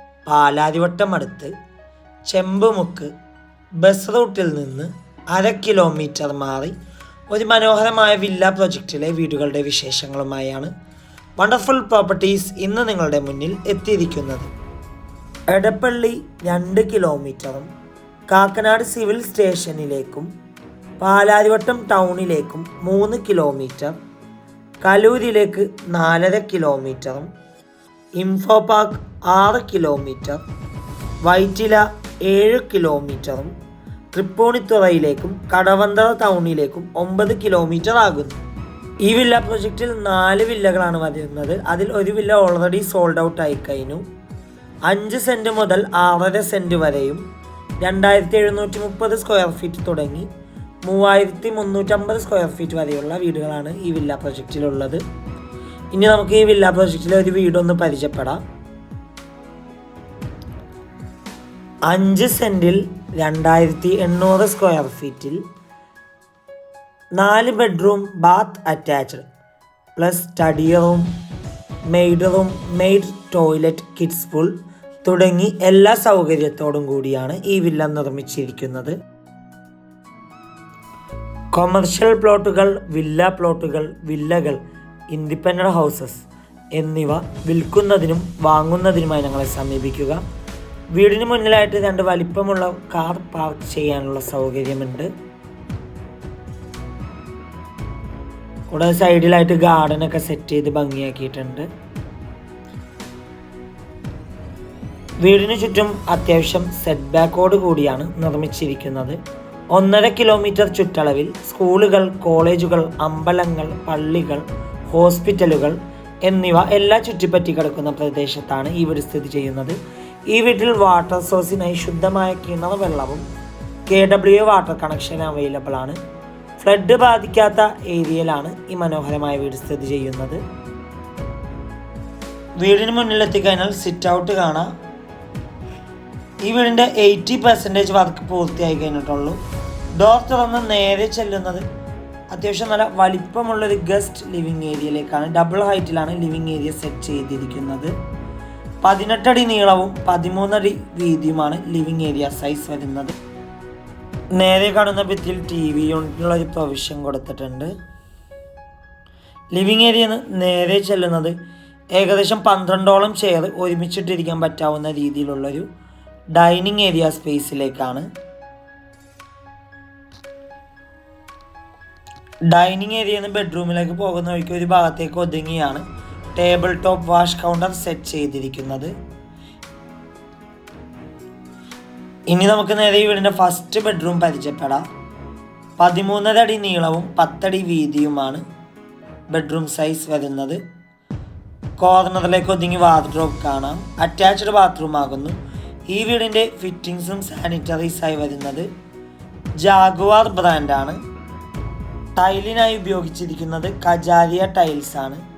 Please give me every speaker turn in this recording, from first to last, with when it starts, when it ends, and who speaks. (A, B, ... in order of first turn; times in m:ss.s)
0:00.2-0:01.5 A
0:02.2-0:03.1 A
0:03.8-0:06.7 A
0:07.3-0:10.7 A
0:11.4-0:14.5 A
0:15.5-0:17.7 A
0:18.3-0:20.3 A
0:21.0-0:23.9 A
0:24.8-0:27.3 A
0:28.2-0:30.4 A
0:31.2-0:33.5 A
0:34.1-0:38.4 A
0:39.0-0:44.0 A
0:44.9-0:47.2 A
0:47.8-0:50.3 A
0:50.8-0:55.0 A
0:55.9-0:58.4 A
1:01.9-1:05.4 A
1:07.2-1:09.3 A
1:10.0-1:11.1 A
1:11.9-1:19.0 A
1:21.5-1:30.2 A
1:30.9-1:35.1 A
1:38.7-1:41.7 A
1:45.2-1:49.2 A
1:49.7-1:59.8 A
2:00.3-2:03.2 A
2:03.9-2:06.0 A
2:06.6-2:10.4 A
2:12.6-2:14.7 A
2:16.4-2:19.4 A
2:19.9-2:21.6 A
2:22.3-2:27.9 A
2:28.8-2:33.1 A
2:34.3-2:37.7 A
2:39.5-2:41.3 A
2:41.9-2:45.7 A
2:46.3-2:48.1 A
2:52.5-2:55.8 A
2:56.3-2:58.9 A
3:02.3-3:04.8 A
3:05.8-3:08.4 A
3:09.3-3:10.6 A
3:11.8-3:18.7 A
3:19.6-3:21.0 A
3:22.2-3:25.2 A